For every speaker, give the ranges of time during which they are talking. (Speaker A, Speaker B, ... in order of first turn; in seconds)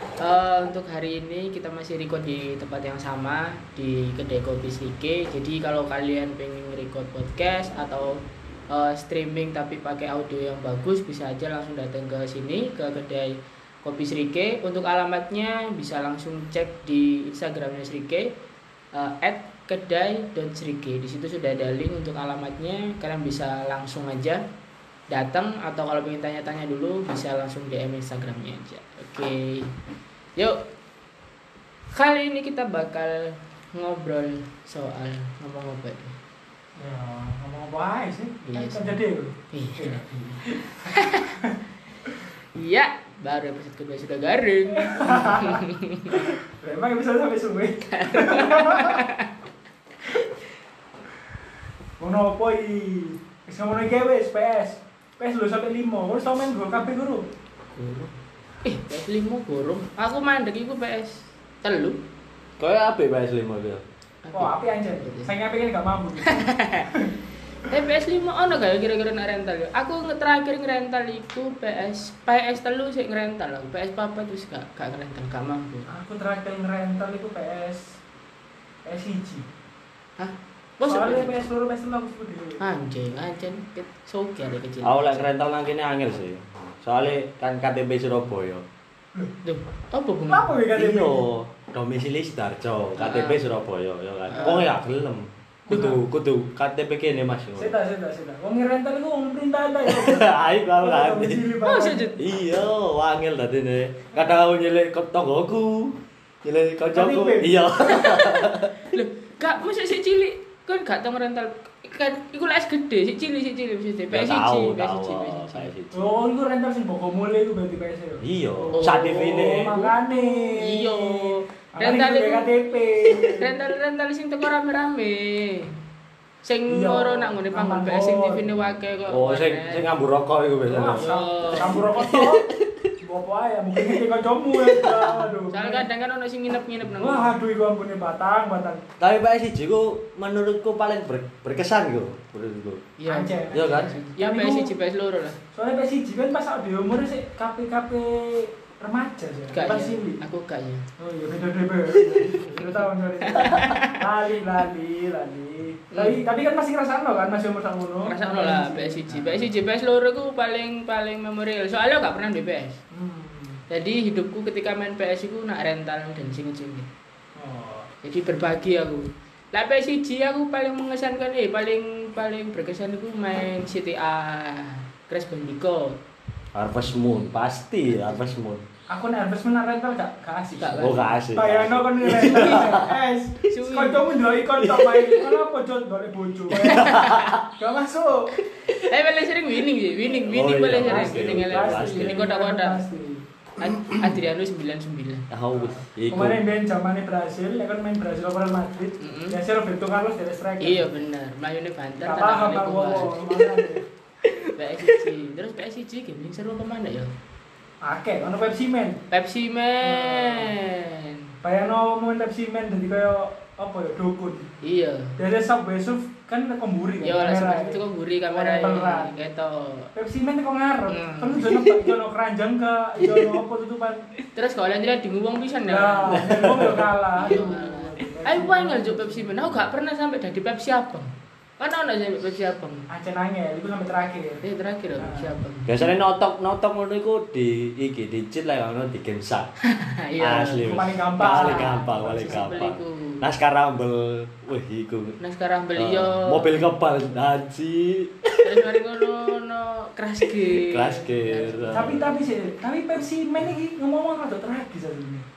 Speaker A: 0.2-8.2, 8.7-18.3, 18.9-24.4, 25.1-29.7, 31.9-36.2, 38.5-39.0, 39.5-40.0, 40.9-41.3, 42.5-46.3, 47.9-49.3, 57.7-62.0, 64.2-65.3, 66.2-66.9, 67.7-75.9, 80.2-81.3, 82.6-85.3, 89.4-90.5, 93.0-93.5, 94.3-94.7, 101.6-102.2, 107.8-115.7, 118.7-122.5, 123.2-125.7, 126.4-129.9, 131.0-131.9, 135.5-137.3, 143.0-145.4, 149.5-150.8, 152.1-154.0, 155.9-156.2, 158.1-162.8, 163.7-166.9, 168.0-176.0, 177.9-178.3, 180.6-181.2, 182.2-182.8, 183.5-184.1, 186.5-187.4, 188.7-192.8, 193.6-195.3, 199.0-199.4, 200.6-203.2, 204.6-207.1, 209.1-211.2, 214.6-215.2, 217.0-219.9, 220.9-221.7, 224.3-226.3, 227.2-232.9, 234.4-235.8, 239.7-243.2, 245.2-246.8, 248.4-252.2
Speaker B: 36.8-41.6, 44.7-49.0, 52.0-57.3, 64.3-67.1, 75.9-78.0, 78.8-79.5, 80.9-82.6, 90.3-91.3, 95.7-96.0, 97.6-102.2, 106.9-107.6, 115.9-123.5, 126.7-128.5, 130.7-132.5, 133.0-135.9, 137.0-138.8, 143.1-144.7, 145.5-150.2, 151.0-159.5, 162.9-163.6, 167.4-167.9, 178.9-186.9, 187.5-188.3, 190.8-193.8, 195.5-200.8, 202.1-203.9, 207.8-209.0, 209.8-210.6, 211.4-214.5, 215.2-219.2, 219.9-224.1, 225.7-229.4, 232.9-234.4, 235.0-235.3, 240.6-242.6, 251.7-255.2
Speaker C: 62.6-63.8, 84.8-88.6, 90.7-97.7, 99.9-101.4, 102.2-108.7, 114.1-116.0, 118.2-119.7, 129.1-131.1, 131.9-132.6, 134.7-135.0, 139.0-142.9, 143.5-143.9, 176.6-178.6, 180.8-182.9, 184.6-185.3, 186.5-187.4, 190.3-192.3, 195.3-196.4, 223.0-223.4, 226.1-226.9, 235.7-239.5, 240.2-245.2, 245.8-248.5, 250.5-252.0